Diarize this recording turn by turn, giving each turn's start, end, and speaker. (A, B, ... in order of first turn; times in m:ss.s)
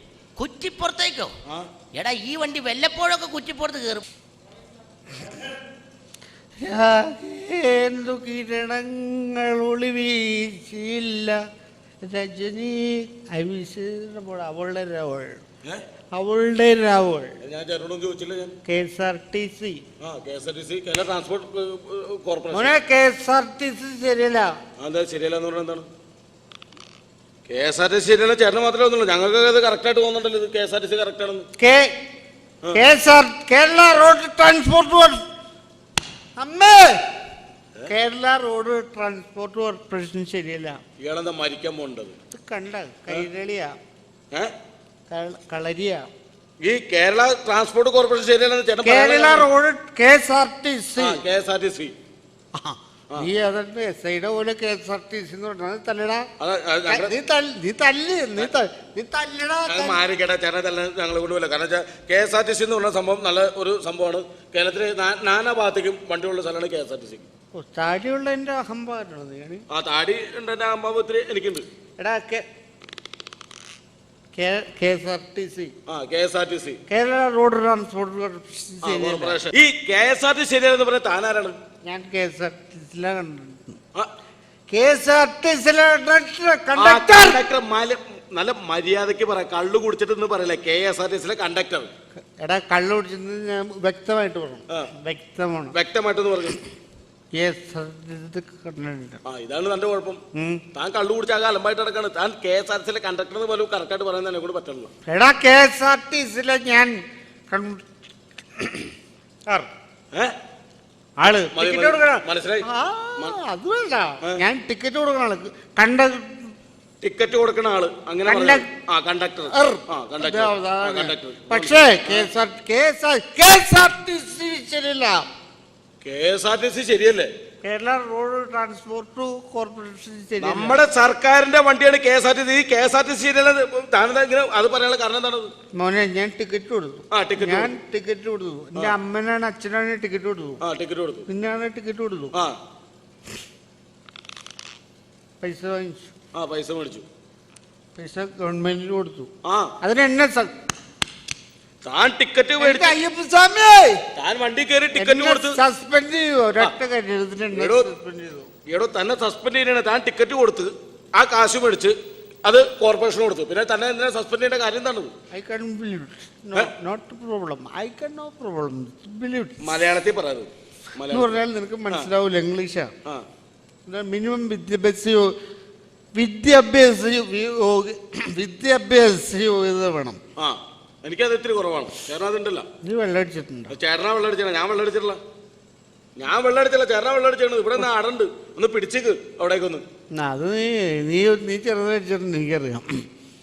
0:00.4-0:01.3 A
0:01.9-0:04.0 A
0:06.6-0:11.4 B
0:12.0-0:15.4 B
0:16.1-0:17.3 B
0:17.4-0:18.5 C
0:18.7-0:19.8 B
0:20.0-0:22.7 C
0:22.5-0:24.5 B
0:24.8-0:25.9 C
0:27.5-0:31.4 C
0:31.6-0:31.9 B
0:32.7-0:35.2 B
0:36.4-0:37.0 B
0:37.9-0:40.8 B
0:41.0-0:42.2 C
0:42.3-0:43.8 B
0:45.1-0:46.1 B
0:46.6-0:49.5 C
0:48.8-0:51.2 B
0:51.0-0:51.9 C
0:52.5-0:56.3 B
0:56.4-0:57.1 C
0:56.9-1:00.0 B
0:59.7-1:07.2 C
1:07.5-1:09.6 B
1:09.7-1:11.7 C
1:12.0-1:12.4 B
1:14.3-1:15.7 B
1:15.9-1:16.8 C
1:16.9-1:19.4 B
1:18.8-1:21.6 C
1:21.8-1:23.8 B
1:24.7-1:27.4 B
1:26.8-1:31.9 C
1:32.4-1:35.7 B
1:35.7-1:36.6 C
1:37.4-1:39.2 B
1:39.2-1:40.2 C
1:40.3-1:40.6 B
1:40.7-1:44.9 C
1:45.1-1:47.8 B
1:48.6-1:48.9 B
1:51.2-1:56.5 B
1:51.5-1:52.6 C
1:57.0-2:02.3 C
1:58.2-1:58.7 B
1:59.5-2:05.2 B
2:06.0-2:07.3 C
2:07.6-2:10.8 B
2:10.4-2:15.5 C
2:15.8-2:20.6 B
2:17.1-2:17.7 C
2:20.6-2:21.2 C
2:21.3-2:22.3 B
2:25.4-2:26.1 B
2:26.3-2:27.0 C
2:28.0-2:29.3 B
2:29.4-2:29.7 C
2:29.8-2:30.5 B
2:31.8-2:33.0 C
2:32.6-2:34.0 B
2:34.1-2:35.6 C
2:34.9-2:38.5 B
2:37.5-2:37.9 C
2:38.7-2:45.1 C
2:45.3-2:50.0 B
2:49.6-2:51.4 C
2:51.0-2:52.9 B
2:53.8-2:55.3 B
2:56.2-3:00.2 B
3:00.4-3:02.6 C
3:02.8-3:03.7 B
3:03.7-3:05.2 C
3:06.2-3:09.8 C
3:10.1-3:12.9 B